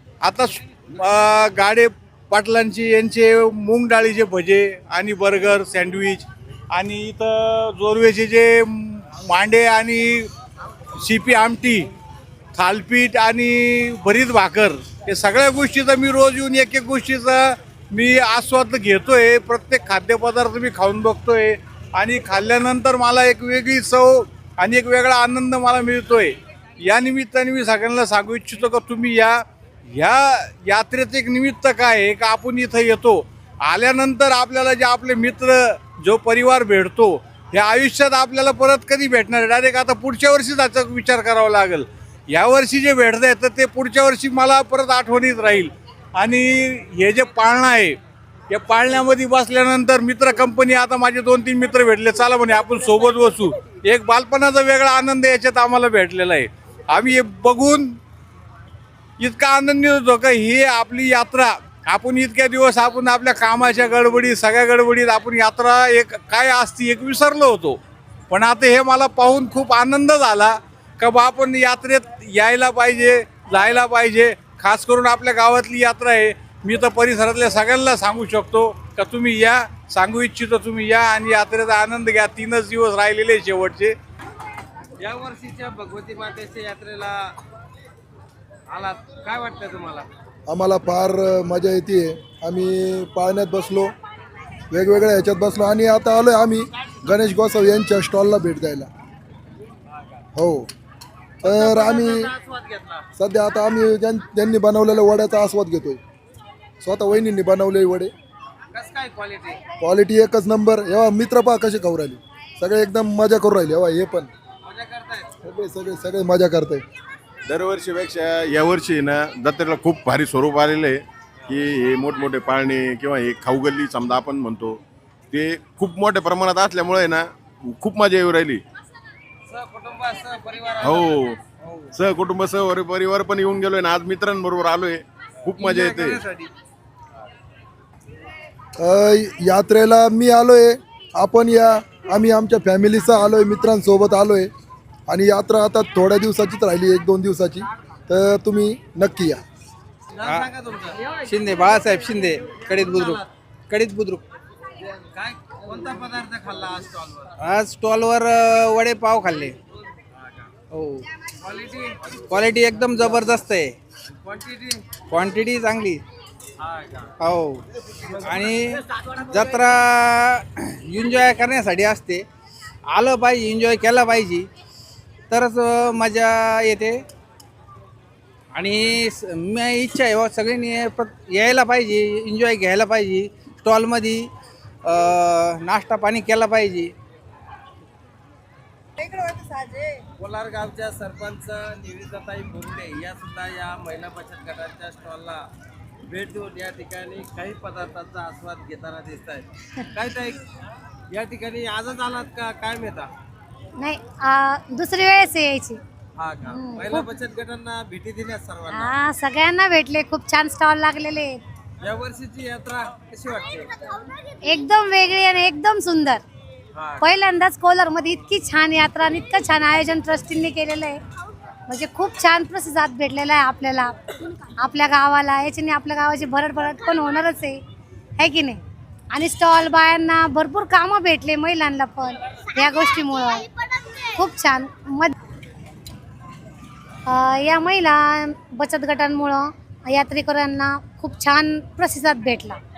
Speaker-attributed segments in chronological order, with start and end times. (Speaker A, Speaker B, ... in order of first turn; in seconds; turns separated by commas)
Speaker A: 0.2-10.3, Speaker A: 11.0-11.9, Speaker A: 12.6-48.0, Speaker A: 48.5-58.0, Speaker A: 59.2-67.8, Speaker A: 68.3-84.0, Speaker B: 85.0-87.2, Speaker B: 88.8-90.1, Speaker C: 90.5-93.9, Speaker C: 94.7-98.9, Speaker C: 100.4-100.7, Speaker C: 101.4-102.3, Speaker B: 102.5-103.0, Speaker C: 103.2-106.0, Speaker C: 106.8-108.1, Speaker B: 108.8-109.6, Speaker C: 109.8-114.3, Speaker B: 114.7-115.2, Speaker C: 115.4-116.8, Speaker D: 117.5-124.8, Speaker D: 125.3-128.6, Speaker B: 129.6-130.9, Speaker D: 130.8-131.4, Speaker D: 132.0-136.2, Speaker C: 138.8-144.5, Speaker C: 145.1-149.4, Speaker B: 150.2-151.1, Speaker E: 150.2-150.5, Speaker E: 151.1-154.2, Speaker B: 155.2-157.3, Speaker E: 157.4-159.6, Speaker E: 160.7-161.0, Speaker B: 161.5-162.0, Speaker E: 162.2-163.8, Speaker B: 164.3-164.8, Speaker E: 165.0-166.0, Speaker E: 167.2-167.6, Speaker E: 168.2-172.2, Speaker E: 172.9-174.5, Speaker E: 175.3-177.0, Speaker E: 178.6-184.3, Speaker E: 184.8-186.9, Speaker B: 190.4-195.2, Speaker B: 196.2-199.4, Speaker B: 201.2-203.0, Speaker F: 203.8-205.8, Speaker F: 206.4-207.1, Speaker B: 207.0-208.8, Speaker F: 208.7-211.4, Speaker B: 211.9-213.7, Speaker F: 214.4-216.2, Speaker F: 217.0-221.0, Speaker F: 221.7-224.0, Speaker F: 224.6-227.6, Speaker F: 228.2-228.6, Speaker F: 229.1-233.4, Speaker F: 234.2-235.1, Speaker F: 237.1-242.6